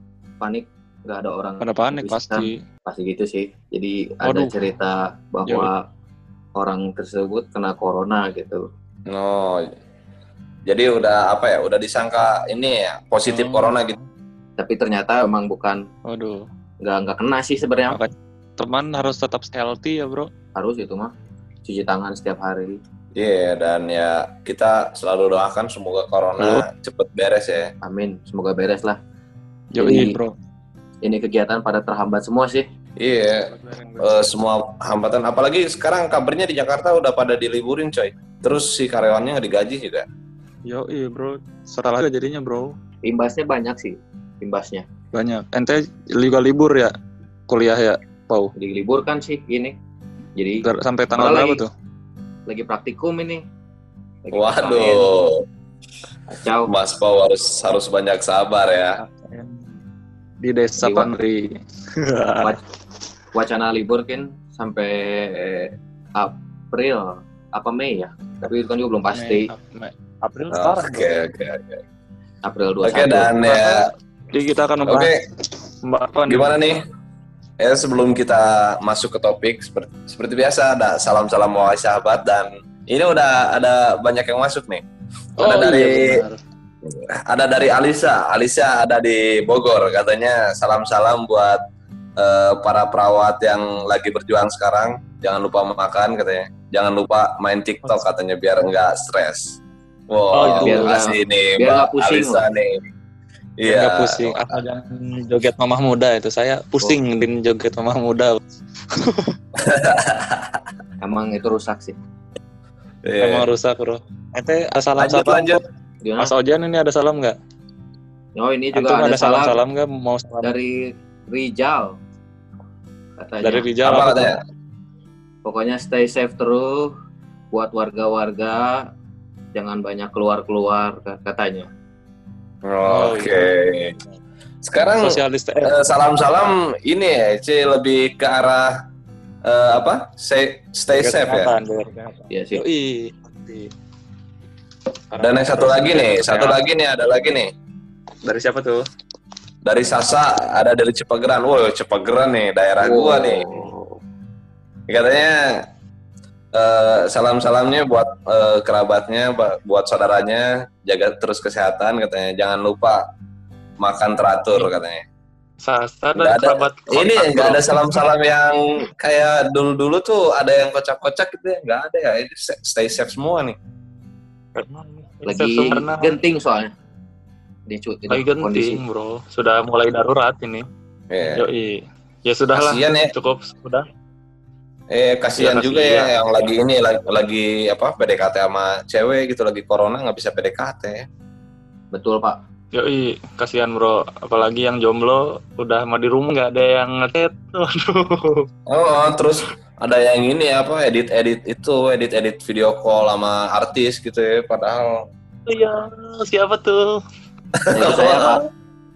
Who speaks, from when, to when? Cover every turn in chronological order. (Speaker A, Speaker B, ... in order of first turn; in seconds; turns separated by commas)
Speaker A: 0.4-5.8, Speaker B: 1.6-2.6, Speaker B: 4.2-4.6, Speaker A: 6.6-8.6, Speaker C: 9.1-9.7, Speaker C: 10.7-14.0, Speaker B: 13.3-14.0, Speaker A: 14.6-15.8, Speaker B: 16.1-16.5, Speaker A: 16.8-18.0, Speaker B: 17.9-20.3, Speaker A: 20.6-21.1, Speaker A: 21.7-22.8, Speaker C: 23.1-27.7, Speaker B: 26.4-26.7, Speaker A: 27.8-29.0, Speaker B: 29.7-30.4, Speaker A: 29.8-30.2, Speaker A: 31.0-32.7, Speaker C: 33.0-33.5, Speaker B: 33.5-34.2, Speaker C: 34.0-40.1, Speaker B: 40.7-42.8, Speaker A: 43.0-44.9, Speaker B: 45.1-46.9, Speaker B: 47.5-48.5, Speaker A: 48.6-49.8, Speaker A: 50.4-51.6, Speaker B: 50.6-51.7, Speaker A: 52.5-53.4, Speaker A: 54.2-55.1, Speaker C: 54.3-55.4, Speaker A: 56.3-56.7, Speaker C: 56.7-59.0, Speaker B: 59.0-59.7, Speaker B: 60.4-62.5, Speaker A: 60.8-61.1, Speaker A: 63.3-69.5, Speaker B: 69.1-71.1, Speaker C: 70.5-71.8, Speaker A: 72.4-73.3, Speaker C: 72.8-73.9, Speaker B: 73.4-75.1, Speaker C: 74.9-75.2, Speaker B: 75.8-76.5, Speaker C: 76.3-76.8, Speaker C: 77.6-84.8, Speaker B: 85.4-86.4, Speaker C: 85.4-86.2, Speaker C: 86.8-91.6, Speaker C: 92.2-99.6, Speaker C: 100.1-102.8, Speaker B: 100.3-101.0, Speaker A: 100.6-102.4, Speaker C: 103.6-104.6, Speaker B: 103.7-108.4, Speaker B: 108.9-109.4, Speaker C: 109.6-110.6, Speaker A: 111.0-112.0, Speaker C: 113.0-113.5, Speaker B: 113.2-115.6, Speaker C: 115.0-115.6, Speaker A: 116.0-116.3, Speaker B: 116.2-117.4, Speaker A: 118.4-119.5, Speaker B: 118.7-120.5, Speaker A: 120.4-122.0, Speaker A: 123.2-123.7, Speaker B: 123.4-124.3, Speaker C: 123.8-124.4, Speaker A: 125.5-126.9, Speaker A: 127.5-128.8, Speaker A: 129.5-131.7, Speaker C: 132.7-133.9, Speaker B: 132.9-133.7, Speaker C: 134.6-138.8, Speaker B: 135.0-135.8, Speaker C: 139.4-141.5, Speaker B: 140.9-143.7, Speaker A: 142.3-142.6, Speaker B: 145.1-146.6, Speaker C: 145.2-147.5, Speaker B: 148.2-148.9, Speaker C: 149.6-153.4, Speaker A: 152.8-153.9, Speaker C: 154.9-155.7, Speaker C: 156.5-163.0, Speaker C: 163.8-165.0, Speaker B: 165.6-168.1, Speaker C: 166.2-173.6, Speaker B: 174.6-176.2, Speaker A: 175.3-176.7, Speaker A: 177.7-178.8, Speaker B: 178.1-180.7, Speaker C: 181.1-181.4, Speaker B: 181.3-183.8, Speaker C: 182.5-183.1, Speaker C: 184.9-191.1, Speaker B: 185.4-186.5, Speaker A: 191.9-192.4, Speaker B: 192.7-198.5, Speaker C: 198.7-205.0, Speaker B: 205.5-207.0, Speaker C: 207.6-208.4, Speaker A: 207.7-208.4